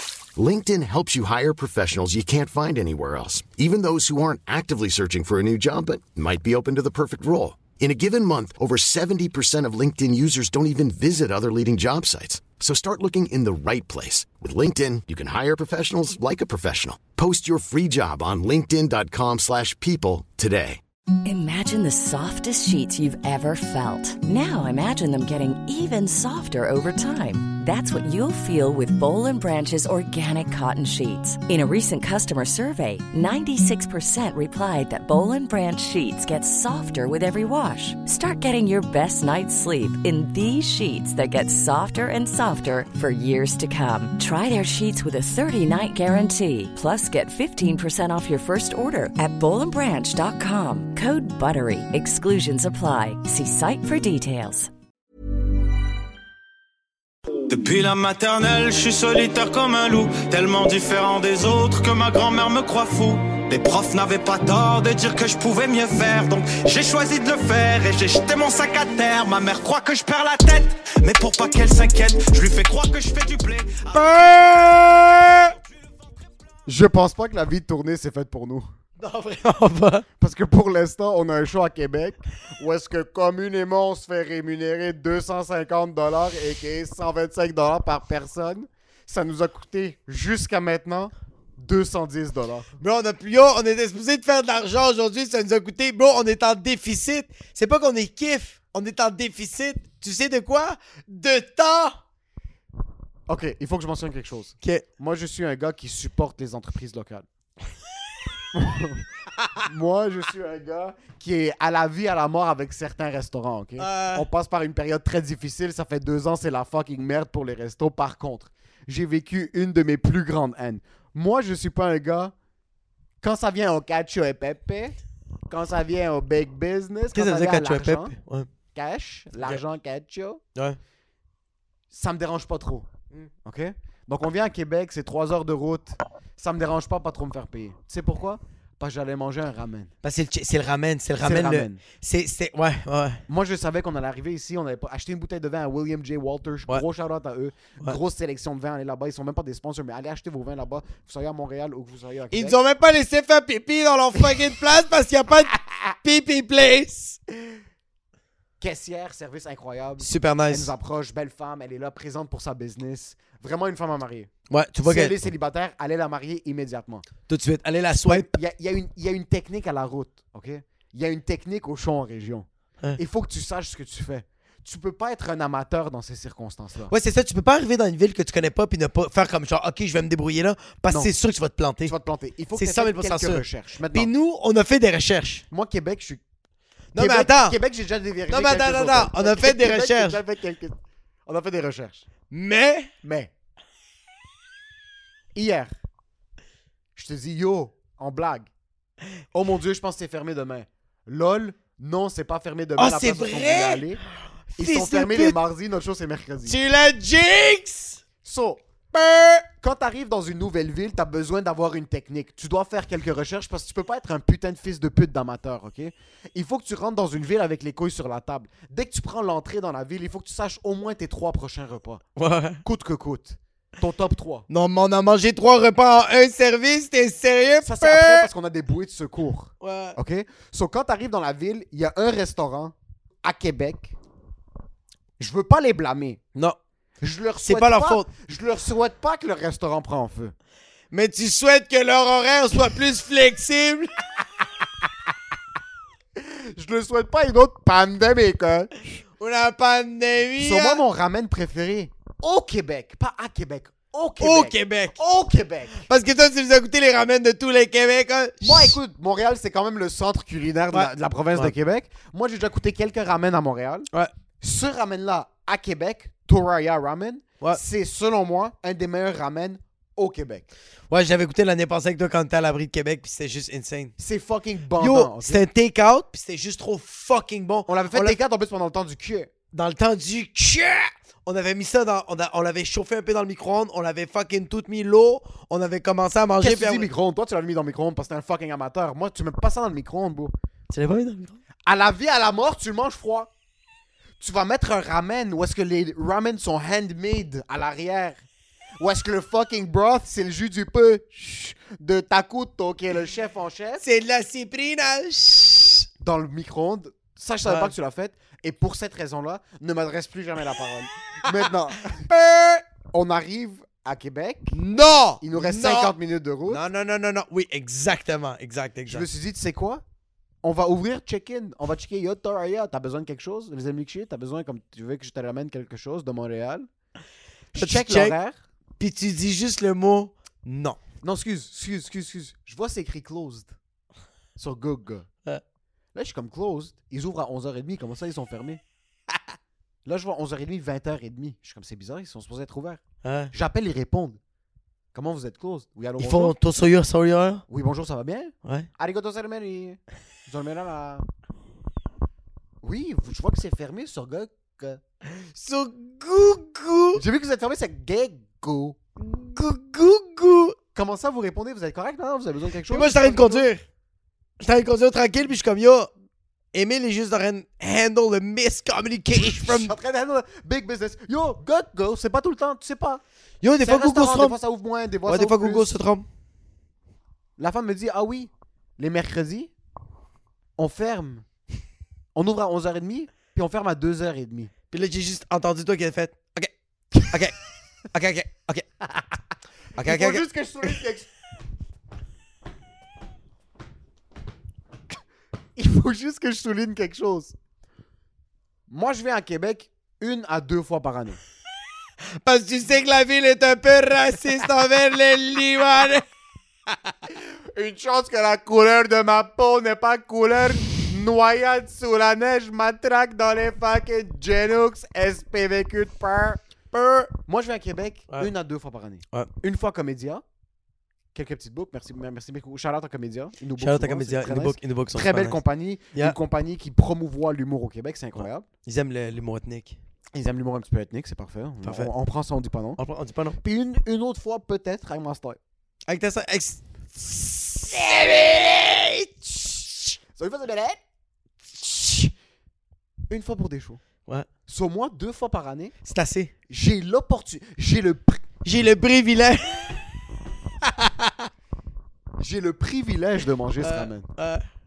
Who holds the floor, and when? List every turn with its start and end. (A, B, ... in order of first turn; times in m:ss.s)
0:00.3-0:20.8 A
0:21.2-0:54.7 B
0:57.5-1:14.0 C
1:13.9-1:15.5 D
1:16.6-1:18.7 E
1:19.0-1:20.0 D
1:20.2-1:32.7 E
1:32.8-1:42.0 D
1:43.3-1:47.2 E
1:48.5-1:49.0 E
1:49.6-2:02.3 E
1:53.8-1:54.2 D
2:03.2-2:04.9 E
2:05.5-2:08.2 E
2:07.1-2:08.5 D
2:08.7-2:10.4 E
2:11.9-2:12.9 E
2:13.4-2:19.9 E
2:20.0-2:23.2 D
2:21.2-2:21.8 E
2:23.3-2:32.6 E
2:32.3-2:37.2 D
2:38.6-2:44.3 E
2:40.0-2:40.7 D
2:44.5-2:45.2 D
2:44.8-2:47.1 E
2:47.3-2:48.3 D
2:48.0-2:56.9 E
2:56.9-3:01.9 D
3:01.8-3:04.1 E
3:02.5-3:05.4 D
3:05.5-3:06.2 E
3:06.9-3:07.6 D
3:07.0-3:12.0 E
3:08.3-3:10.2 D
3:12.3-3:12.9 D
3:13.0-3:13.3 E
3:15.3-3:15.7 E
3:17.0-3:18.5 E
3:19.3-3:24.0 E
3:22.8-3:23.9 D
3:24.5-3:25.4 D
3:24.6-3:26.6 E
3:26.4-3:28.0 D
3:28.2-3:28.6 E
3:28.9-3:29.4 D
3:29.6-3:42.0 E
3:42.2-3:42.6 D
3:42.6-3:44.4 E
3:44.5-3:48.3 D
3:47.6-3:53.9 E
3:49.6-3:50.0 D
3:55.2-3:56.2 E
3:57.0-4:00.3 E
3:57.4-3:58.1 D
4:00.9-4:03.9 D
4:06.2-4:08.7 E
4:09.2-4:10.8 D
4:10.4-4:15.8 E
4:14.2-4:15.0 D
4:15.8-4:18.8 D
4:18.4-4:23.9 E
4:20.7-4:21.5 D
4:24.4-4:30.4 E
4:30.9-4:33.9 D
4:34.0-4:35.4 E
4:34.8-4:38.2 D
4:37.7-4:39.3 E
4:39.5-4:46.9 D
4:46.4-4:50.3 E
4:50.7-4:51.4 D
4:51.6-4:53.3 E
4:54.2-4:58.2 E
4:58.8-5:03.8 E
5:03.8-5:05.8 D
5:06.0-5:12.0 E
5:07.4-5:07.7 D
5:11.9-5:12.6 D
5:12.9-5:14.6 E
5:14.5-5:15.9 D
5:15.2-5:16.6 E
5:16.5-5:19.1 D
5:18.9-5:19.8 E
5:20.4-5:26.7 E
5:27.5-5:28.4 E
5:27.6-5:28.1 D
5:28.8-5:30.8 D
5:31.0-5:33.5 E
5:34.4-5:35.1 E
5:35.9-5:38.6 E
5:39.8-5:44.2 E
5:43.0-5:43.3 D
5:44.9-5:46.4 E
5:46.0-5:47.4 D
5:47.5-5:51.0 E
5:52.6-5:54.8 E
5:55.2-5:57.0 D
5:56.9-5:58.8 E
5:59.0-6:00.6 D
6:00.7-6:03.4 E
6:02.7-6:03.6 D
6:04.4-6:05.9 D
6:06.5-6:09.7 D
6:09.2-6:13.0 E
6:13.4-6:14.4 D
6:13.6-6:15.7 E
6:15.0-6:16.0 D
6:17.4-6:19.5 E
6:20.6-6:21.2 E
6:22.1-6:24.5 E
6:24.7-6:27.4 D
6:27.9-6:28.6 D
6:29.8-6:30.2 D
6:29.8-6:31.1 E
6:35.6-6:37.3 E
6:38.7-6:41.2 E
6:42.2-6:46.0 D
6:47.1-6:56.4 E
6:56.7-6:57.1 D
6:57.3-7:00.2 E
7:01.1-7:08.5 E
7:03.6-7:05.4 D
7:08.6-7:09.8 D
7:10.1-7:12.8 E
7:11.6-7:11.9 D
7:12.8-7:13.4 D
7:13.4-7:15.4 E
7:15.9-7:20.0 D
7:20.1-7:20.8 E
7:21.6-7:22.1 E
7:23.1-7:23.8 E
7:24.5-7:25.7 E
7:25.8-7:26.3 D
7:26.5-7:28.3 E
7:28.4-7:29.9 D
7:30.6-7:31.3 D
7:32.2-7:34.1 E
7:33.6-7:34.4 D